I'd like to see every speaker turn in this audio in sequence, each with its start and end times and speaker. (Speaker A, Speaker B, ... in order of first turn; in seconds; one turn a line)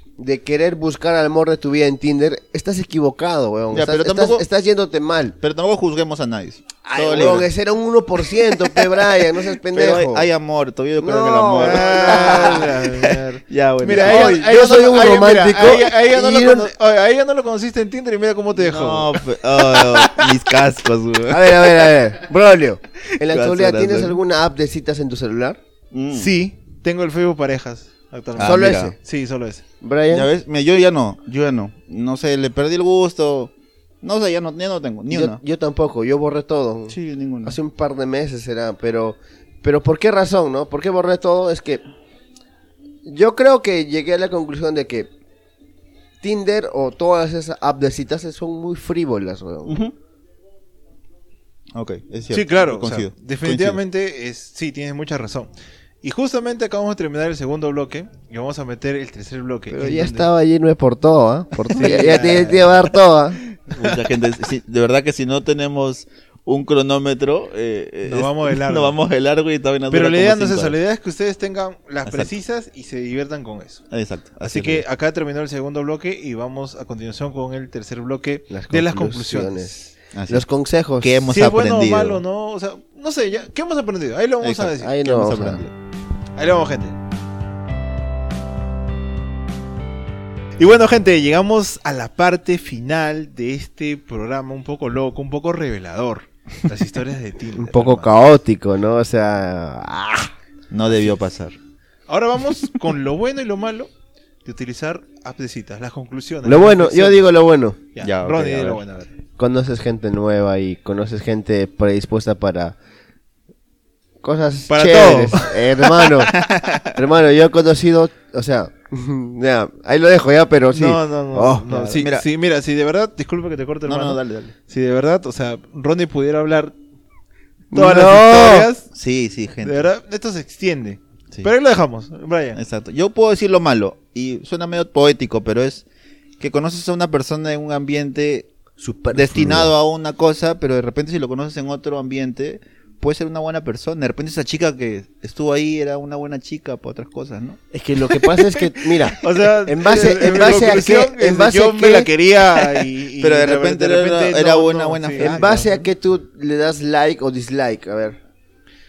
Speaker A: 0.2-5.4
Speaker B: 3.7-4.5
Speaker B: 5.4-7.5
Speaker A: 6.9-10.3
Speaker B: 9.7-14.4
Speaker A: 11.0-12.7
Speaker C: 11.6-19.2
Speaker A: 13.9-16.7
Speaker B: 18.5-21.9
Speaker C: 19.7-20.2
Speaker A: 21.3-25.6
Speaker B: 23.2-24.2
Speaker B: 25.9-26.3
Speaker C: 26.1-29.6
Speaker B: 28.4-28.9
Speaker A: 28.4-28.9
Speaker A: 29.8-30.3
Speaker B: 30.1-35.4
Speaker A: 35.1-41.8
Speaker B: 36.9-37.6
Speaker A: 43.1-45.1
Speaker A: 46.2-49.8
Speaker B: 49.6-49.9
Speaker B: 51.7-53.8
Speaker C: 52.3-55.5
Speaker C: 56.0-60.3
Speaker A: 59.7-63.4
Speaker B: 61.7-62.7
Speaker C: 61.8-62.7
Speaker B: 63.5-70.8
Speaker C: 68.1-69.0
Speaker C: 69.9-73.8
Speaker B: 73.9-74.8
Speaker C: 74.4-79.9
Speaker A: 78.5-81.3
Speaker B: 80.1-80.5
Speaker B: 81.0-82.2
Speaker C: 81.3-85.0
Speaker B: 84.4-85.7
Speaker A: 84.8-85.6
Speaker C: 86.4-87.0
Speaker C: 90.6-98.1
Speaker A: 97.6-100.3
Speaker B: 100.7-101.6
Speaker C: 100.9-101.2
Speaker C: 102.1-103.9
Speaker C: 104.5-107.3
Speaker A: 106.5-107.8
Speaker C: 107.9-109.1
Speaker B: 108.0-108.8
Speaker A: 109.4-112.8
Speaker A: 114.2-116.4
Speaker C: 114.7-116.3
Speaker B: 116.3-117.0
Speaker A: 116.9-122.0
Speaker C: 120.7-126.7
Speaker B: 121.9-122.3
Speaker B: 123.9-124.5
Speaker A: 127.7-128.7
Speaker C: 127.7-128.9
Speaker B: 128.9-129.9
Speaker C: 129.6-132.6
Speaker B: 132.6-135.8
Speaker B: 136.4-138.5
Speaker A: 138.8-139.7
Speaker B: 139.1-147.6
Speaker A: 147.7-152.1
Speaker C: 149.1-155.8
Speaker B: 153.2-155.6
Speaker A: 155.2-158.2